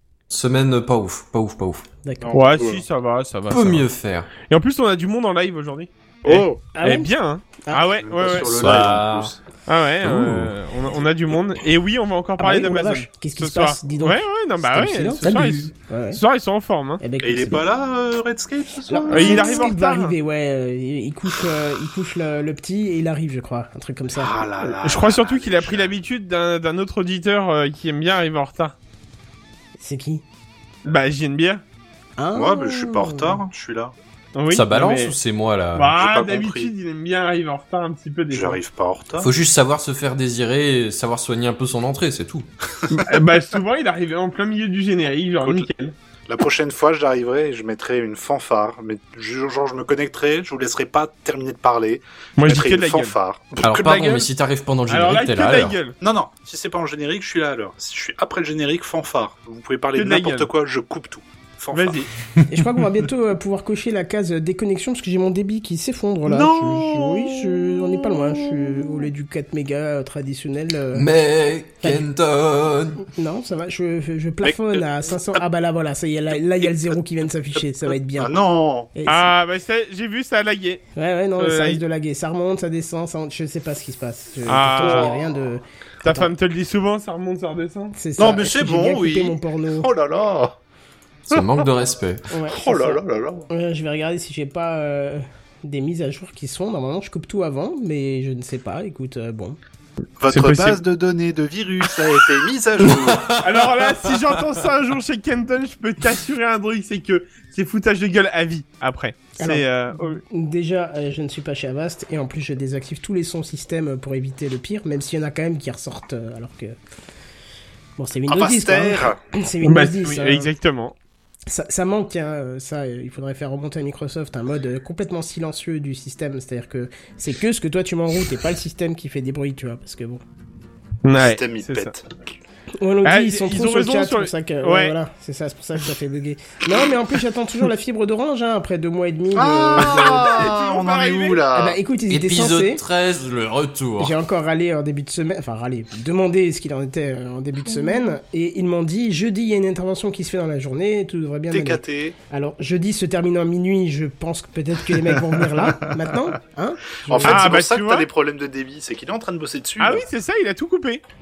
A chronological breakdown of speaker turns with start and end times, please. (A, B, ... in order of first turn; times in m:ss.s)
0:00.3-0:01.8 A
0:02.0-0:02.4 B
0:02.2-0:02.8 C
0:02.3-0:03.9 D
0:03.5-0:04.3 A
0:04.4-0:08.6 D
0:06.2-0:06.6 C
0:06.8-0:07.1 B
0:08.0-0:09.4 C
0:08.4-0:09.4 A
0:09.7-0:17.0 D
0:10.0-0:10.5 A
0:12.4-0:16.2 B
0:17.0-0:17.6 B
0:17.2-0:19.7 C
0:18.9-0:24.3 B
0:19.1-0:20.2 D
0:24.1-0:25.9 C
0:24.6-0:28.8 D
0:29.8-0:30.2 B
0:30.8-0:31.6 D
0:32.2-0:33.4 B
0:32.3-0:33.9 C
0:34.4-0:35.2 D
0:34.5-0:35.9 A
0:35.8-0:38.6 D
0:36.0-0:36.7 C
0:38.3-0:39.3 C
0:39.2-0:42.5 A
0:43.0-0:45.9 D
0:45.4-0:45.7 C
0:46.3-0:54.2 C
0:52.4-0:53.1 D
0:53.6-0:55.8 A
0:54.9-0:56.0 D
0:56.0-1:02.1 C
1:00.0-1:00.5 D
1:01.7-1:02.1 D
1:02.5-1:11.1 B
1:06.3-1:07.3 A
1:10.9-1:13.0 A
1:13.2-1:18.3 B
1:14.4-1:15.4 C
1:16.3-1:17.0 C
1:17.6-1:18.9 C
1:19.0-1:19.3 B
1:19.1-1:20.8 D
1:21.0-1:26.3 B
1:21.4-1:21.8 D
1:24.5-1:25.1 D
1:24.6-1:25.3 C
1:26.0-1:28.0 D
1:28.0-1:29.9 B
1:28.2-1:30.6 C
1:31.3-1:32.2 A
1:31.3-1:31.6 C
1:32.3-1:39.6 B
1:32.5-1:33.5 C
1:40.2-1:43.4 C
1:40.3-1:40.8 D
1:43.1-1:43.4 A
1:43.4-1:50.2 D
1:49.4-1:56.8 B
1:58.0-2:00.5 B
1:58.3-1:59.2 C
1:59.6-2:01.0 D
2:01.5-2:10.2 B
2:11.0-2:11.9 D
2:11.1-2:12.1 C
2:12.8-2:20.4 B
2:13.0-2:14.9 D
2:19.3-2:21.8 C
2:19.8-2:21.4 D
2:21.5-2:22.8 B
2:22.1-2:24.2 A
2:24.0-2:37.5 B
2:31.5-2:32.2 C
2:35.1-2:35.7 C
2:37.1-2:40.0 C
2:37.2-2:38.1 D
2:39.8-2:41.0 D